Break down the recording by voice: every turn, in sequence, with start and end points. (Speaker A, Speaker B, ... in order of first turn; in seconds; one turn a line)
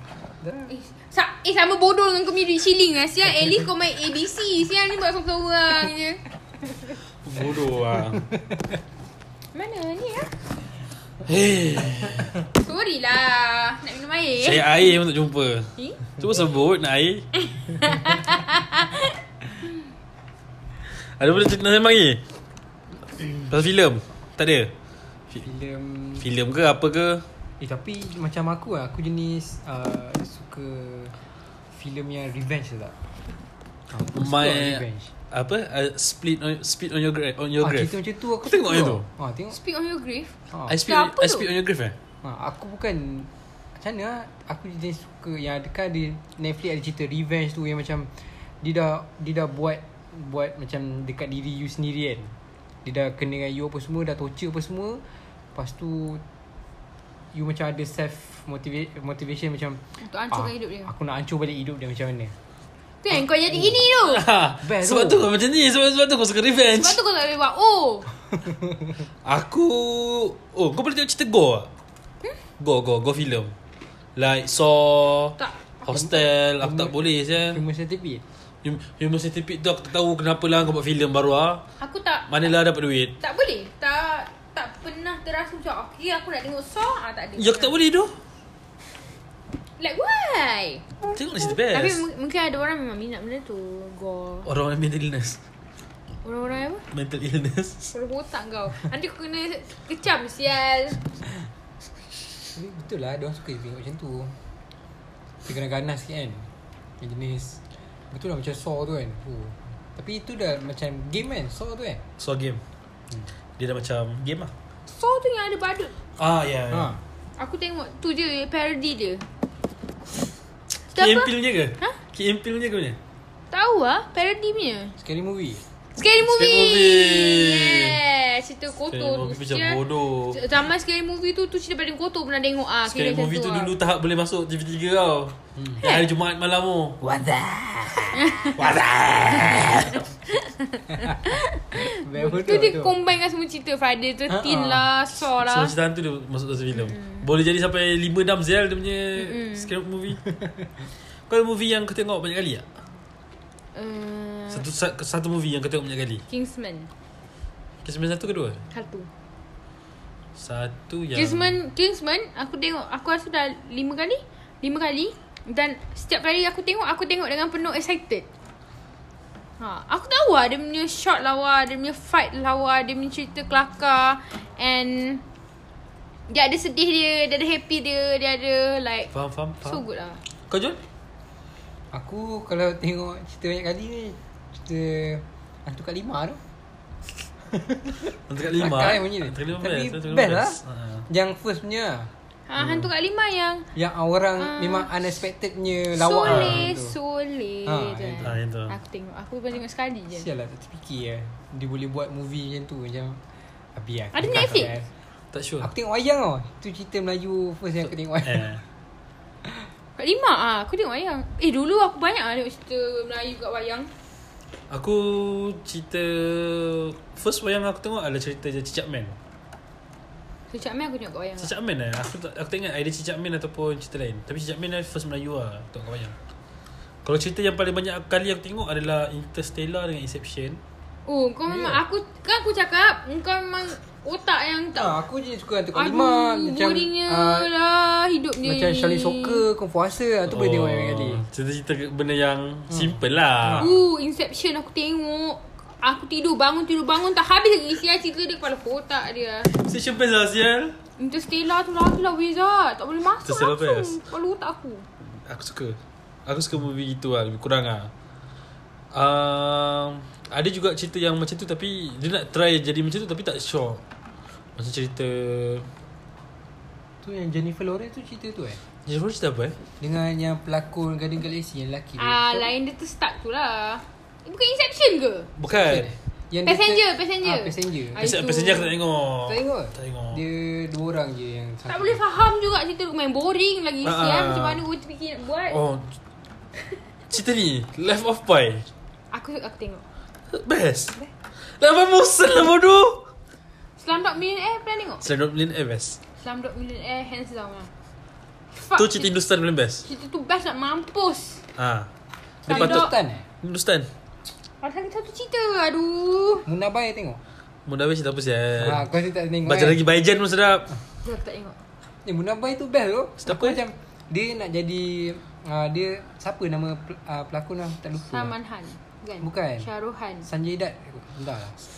Speaker A: 0.4-0.7
Speaker B: 0.7-6.2
Speaker C: 7.2-8.3
Speaker B: 9.5-10.3
Speaker C: 11.3-12.3
Speaker B: 12.5-14.7
Speaker C: 14.4-17.3
Speaker B: 17.4-19.1
Speaker C: 20.9-22.2
Speaker C: 23.4-24.7
Speaker A: 25.4-26.3
Speaker C: 26.2-27.3
Speaker A: 27.6-31.2
Speaker A: 31.7-33.0
Speaker A: 33.9-35.1
Speaker C: 34.1-39.0
Speaker A: 37.6-39.6
Speaker B: 39.5-41.5
Speaker C: 40.7-42.0
Speaker A: 42.2-55.0
Speaker A: 55.5-56.2
Speaker A: 57.3-62.4
Speaker B: 60.0-60.9
Speaker B: 63.0-64.2
Speaker C: 63.9-67.0
Speaker A: 64.6-65.3
Speaker B: 66.7-68.1
Speaker A: 68.4-68.9
Speaker C: 69.2-71.7
Speaker C: 72.6-73.5
Speaker C: 74.2-77.6
Speaker A: 75.9-78.2
Speaker C: 78.6-81.6
Speaker B: 81.8-82.3
Speaker C: 82.3-83.1
Speaker B: 83.2-87.7
Speaker C: 87.4-88.2
Speaker B: 89.8-90.9
Speaker C: 91.1-92.0
Speaker B: 91.6-94.5
Speaker C: 94.5-95.4
Speaker B: 96.2-96.8
Speaker C: 96.9-97.9
Speaker B: 97.9-101.1
Speaker A: 102.5-104.4
Speaker A: 105.5-112.0
Speaker C: 112.2-112.6
Speaker C: 113.6-114.5
Speaker B: 114.9-115.9
Speaker C: 116.2-117.0
Speaker A: 116.7-117.0
Speaker B: 117.4-119.3
Speaker B: 120.9-122.0
Speaker C: 120.9-123.0
Speaker B: 123.5-125.0
Speaker A: 125.0-125.6
Speaker B: 126.0-133.8
Speaker C: 126.2-128.0
Speaker C: 128.9-130.4
Speaker C: 132.9-137.0
Speaker A: 135.6-135.8
Speaker A: 137.0-138.5
Speaker B: 138.1-138.7
Speaker C: 138.6-140.0
Speaker B: 139.2-145.8
Speaker A: 141.7-143.0
Speaker A: 144.3-144.9
Speaker C: 145.3-150.2
Speaker B: 146.9-147.2
Speaker B: 149.2-149.7
Speaker C: 151.3-152.7
Speaker B: 153.7-154.7
Speaker C: 154.5-156.2
Speaker B: 156.3-156.9
Speaker C: 157.8-158.6
Speaker B: 158.7-159.1
Speaker C: 160.4-161.6
Speaker B: 161.1-168.3
Speaker B: 169.6-175.2
Speaker B: 176.3-179.1
Speaker C: 179.1-179.8
Speaker B: 179.6-180.2
Speaker C: 180.5-180.8
Speaker A: 181.9-186.4
Speaker A: 187.5-192.1
Speaker C: 188.3-191.1
Speaker B: 192.5-193.7
Speaker A: 193.8-197.0
Speaker B: 194.4-194.9
Speaker B: 195.9-200.3
Speaker C: 196.2-196.7
Speaker A: 197.7-198.3
Speaker C: 198.2-198.8
Speaker A: 200.1-203.2
Speaker A: 203.8-204.9
Speaker B: 204.1-204.7
Speaker C: 205.3-205.7
Speaker A: 205.6-208.6
Speaker C: 208.2-208.6
Speaker B: 210.0-213.9
Speaker C: 214.7-219.2
Speaker B: 220.5-221.5
Speaker C: 221.4-226.2
Speaker C: 227.1-230.6
Speaker B: 231.1-235.0
Speaker A: 231.5-231.8
Speaker A: 234.8-237.5
Speaker B: 235.7-239.4
Speaker A: 238.4-241.2
Speaker C: 240.3-243.7
Speaker A: 242.7-243.7
Speaker B: 243.6-249.5
Speaker C: 249.5-250.8
Speaker B: 251.0-254.8
Speaker C: 253.2-254.0
Speaker C: 255.3-257.9
Speaker C: 258.9-263.8
Speaker C: 264.6-265.7
Speaker A: 267.0-268.6
Speaker C: 268.9-269.6
Speaker A: 269.8-272.5
Speaker B: 272.0-275.3
Speaker C: 275.4-275.9
Speaker A: 275.5-278.0
Speaker B: 276.4-278.8
Speaker C: 278.0-280.2
Speaker A: 279.3-282.0
Speaker B: 281.7-285.6
Speaker C: 283.8-284.6
Speaker C: 285.5-285.9
Speaker C: 287.1-288.7
Speaker B: 289.1-289.9
Speaker C: 290.3-293.1
Speaker B: 293.8-295.0
Speaker C: 295.0-296.0
Speaker B: 296.2-297.7
Speaker B: 298.5-299.1
Speaker C: 298.8-299.9
Speaker B: 299.8-301.4
Speaker C: 301.6-301.9
Speaker C: 302.4-302.9
Speaker A: 302.5-303.3
Speaker B: 302.5-302.9
Speaker C: 303.4-303.9
Speaker B: 304.6-306.5
Speaker A: 306.5-307.2
Speaker C: 307.7-308.9
Speaker A: 308.6-309.8
Speaker C: 309.4-310.8
Speaker B: 311.0-311.6
Speaker A: 312.1-318.3
Speaker C: 313.2-313.6
Speaker B: 318.1-320.3
Speaker A: 319.2-319.7
Speaker A: 320.2-321.6